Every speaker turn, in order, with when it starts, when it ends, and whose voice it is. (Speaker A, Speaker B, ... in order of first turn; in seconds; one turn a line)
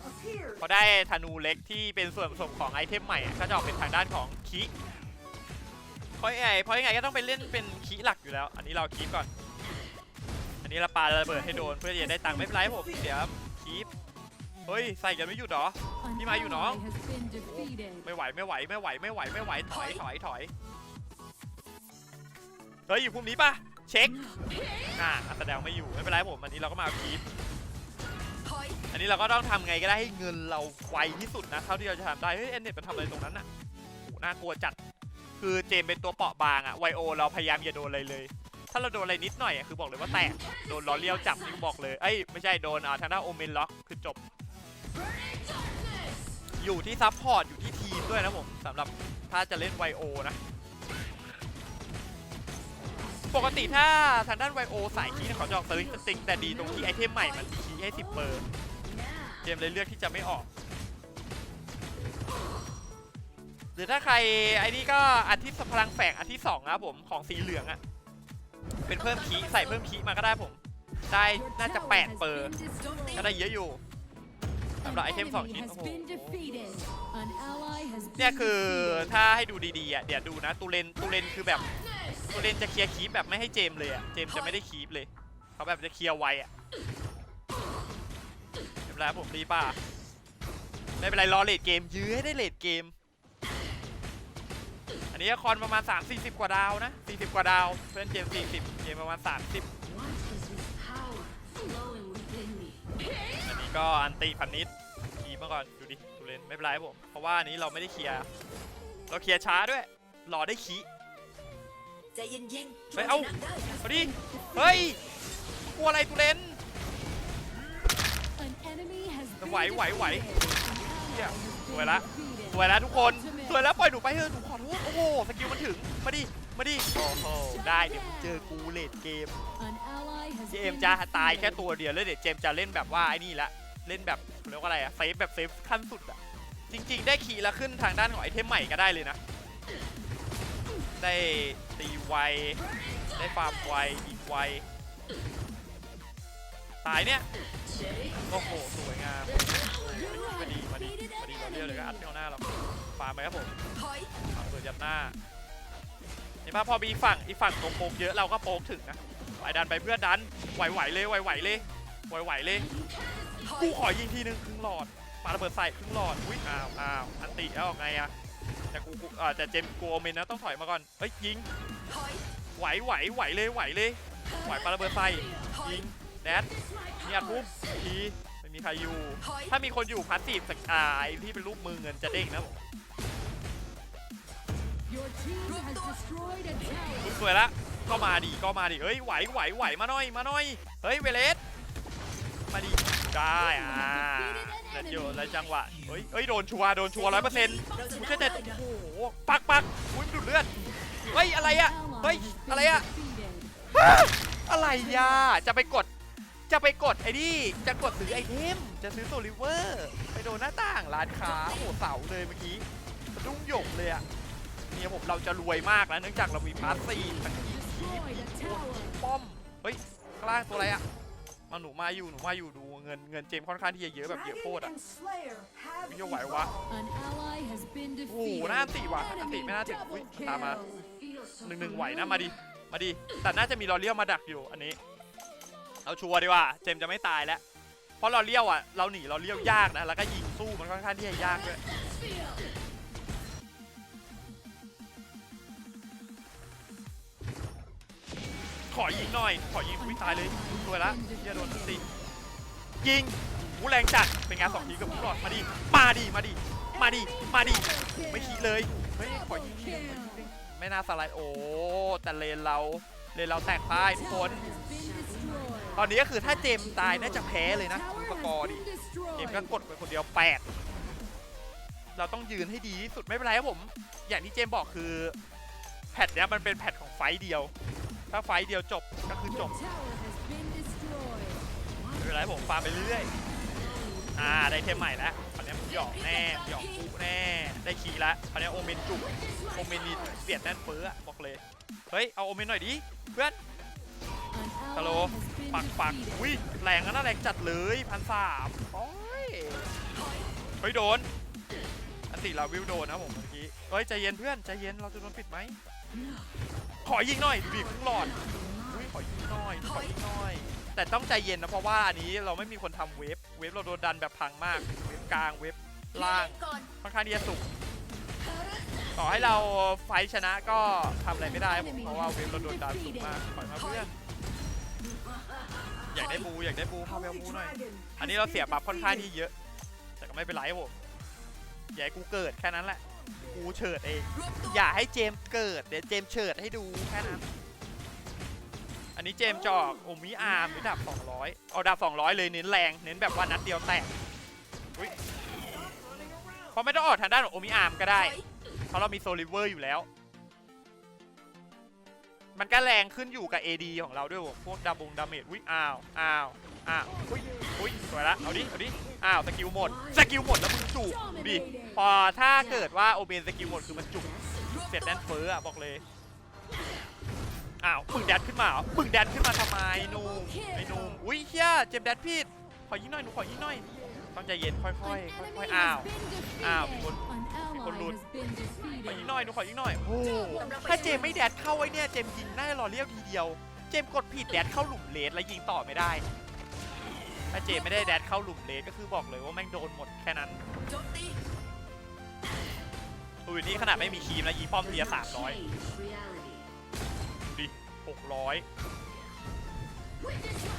Speaker A: 0.6-4.7
Speaker A: 6.2-9.3
Speaker A: 10.6-13.9
Speaker A: 14.7-20.5
Speaker B: 16.9-17.3
Speaker A: 22.9-24.2
Speaker A: 24.9-27.2
Speaker C: 28.4-28.8
Speaker A: 28.9-33.5
Speaker A: 34.0-34.8
Speaker A: 35.4-44.2
Speaker A: 46.6-50.4
Speaker A: 53.3-58.5
Speaker A: 59.4-60.5
Speaker A: 63.8-67.8
Speaker A: 68.9-72.6
Speaker C: 69.0-69.8
Speaker C: 72.8-73.2
Speaker A: 73.1-73.8
Speaker A: 74.8-76.7
Speaker B: 77.2-78.1
Speaker A: 78.2-81.8
Speaker A: 82.3-86.5
Speaker A: 88.9-89.8
Speaker A: 91.0-92.9
Speaker A: 95.1-99.7
Speaker C: 100.2-102.8
Speaker A: 103.4-108.3
Speaker A: 109.1-110.9
Speaker C: 112.1-113.8
Speaker A: 113.0-115.0
Speaker A: 115.7-116.6
Speaker B: 118.5-119.4
Speaker A: 119.4-129.4
Speaker B: 129.7-130.4
Speaker A: 130.5-139.2
Speaker A: 141.0-142.6
Speaker A: 143.2-144.7
Speaker A: 146.8-147.3
Speaker A: 148.3-153.5
Speaker C: 153.8-154.1
Speaker A: 154.3-155.2
Speaker A: 156.4-162.7
Speaker A: 163.4-168.1
Speaker A: 168.7-171.5
Speaker C: 171.9-172.2
Speaker A: 172.6-182.6
Speaker B: 185.0-185.4
Speaker C: 185.3-187.0
Speaker A: 187.0-191.4
Speaker A: 192.5-202.9
Speaker C: 197.1-198.6
Speaker B: 203.0-203.5
Speaker A: 203.7-205.9
Speaker A: 206.5-214.1
Speaker A: 214.7-220.8
Speaker A: 221.5-224.8
Speaker B: 225.2-225.5
Speaker A: 225.8-226.6
Speaker B: 226.7-228.0
Speaker A: 228.1-230.7
Speaker A: 231.4-234.8
Speaker A: 235.8-237.4
Speaker A: 238.0-241.6
Speaker A: 248.7-251.9
Speaker A: 252.8-264.6
Speaker B: 264.6-265.6
Speaker A: 265.7-270.4
Speaker A: 271.9-275.2
Speaker A: 275.9-277.5
Speaker A: 278.1-279.6
Speaker B: 280.0-281.4
Speaker A: 281.9-283.1
Speaker A: 284.1-293.4
Speaker B: 294.4-294.7
Speaker A: 294.7-299.7
Speaker A: 300.6-301.1
Speaker A: 302.1-305.6
Speaker A: 306.8-317.5
Speaker C: 315.9-316.7
Speaker A: 318.9-323.9
Speaker C: 324.9-325.4
Speaker A: 325.9-329.3
Speaker A: 330.0-330.8
Speaker A: 331.7-337.3
Speaker A: 339.0-343.9
Speaker A: 346.5-348.2
Speaker C: 348.0-348.2
Speaker A: 348.7-349.9
Speaker A: 352.4-365.8
Speaker A: 367.6-378.0
Speaker B: 378.0-378.7
Speaker A: 378.7-386.1
Speaker C: 380.2-381.2
Speaker A: 387.3-390.4
Speaker C: 390.7-391.2
Speaker A: 393.3-395.4
Speaker C: 395.5-396.4
Speaker A: 397.3-398.4